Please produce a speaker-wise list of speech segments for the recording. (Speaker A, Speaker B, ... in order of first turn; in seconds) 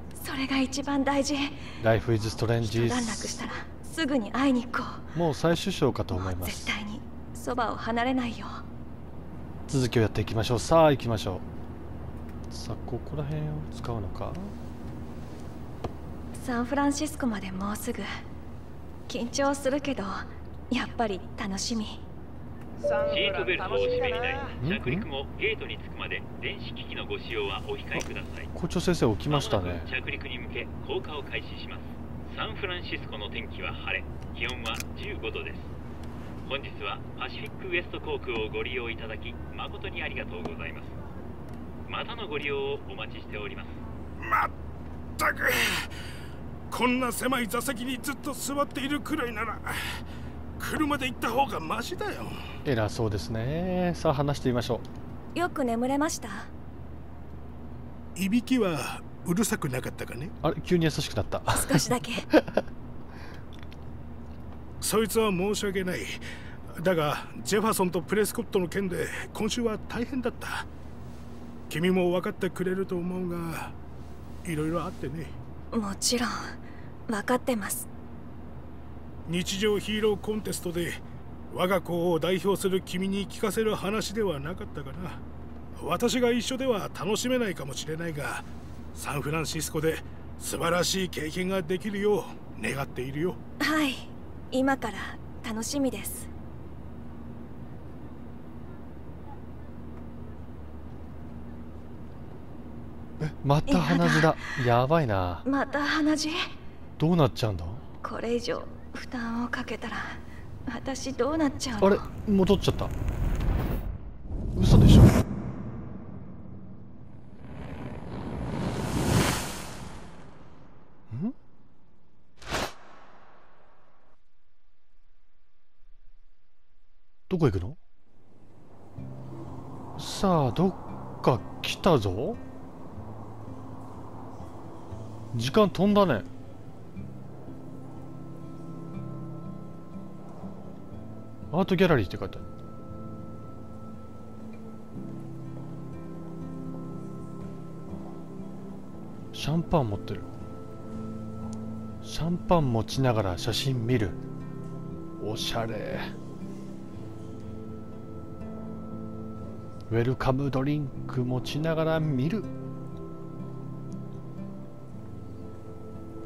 Speaker A: 0.1-1.6, 2.6-5.1, 6.2-8.6, 16.4-18.1, 19.1-22.0, 55.4-56.5, 61.5-62.3, 75.7-77.9, 93.6-96.3, 103.7-104.4, 105.5-106.4, 108.0-112.1
Speaker B: 1.8-3.5, 5.2-6.7, 9.7-11.4, 12.5-14.5, 24.6-25.1, 27.9-29.9, 52.6-54.9, 60.4-62.7, 103.2-105.5, 107.0-107.8, 111.8-112.9, 114.5-115.1, 121.1-121.3, 127.3-127.8, 130.0-132.4, 135.3-136.3, 141.5-142.4, 149.3-150.3, 152.0-154.2, 155.2-156.1, 159.9-162.5
Speaker C: 22.9-28.5, 29.3-35.7, 36.5-40.9, 41.9-43.8
Speaker D: 44.2-44.5, 45.2-45.9, 46.7-50.0, 50.6-52.4, 58.2-60.3, 64.8-66.2, 66.8-70.7, 71.7-73.8, 74.5-75.3, 79.3-85.2, 85.8-93.4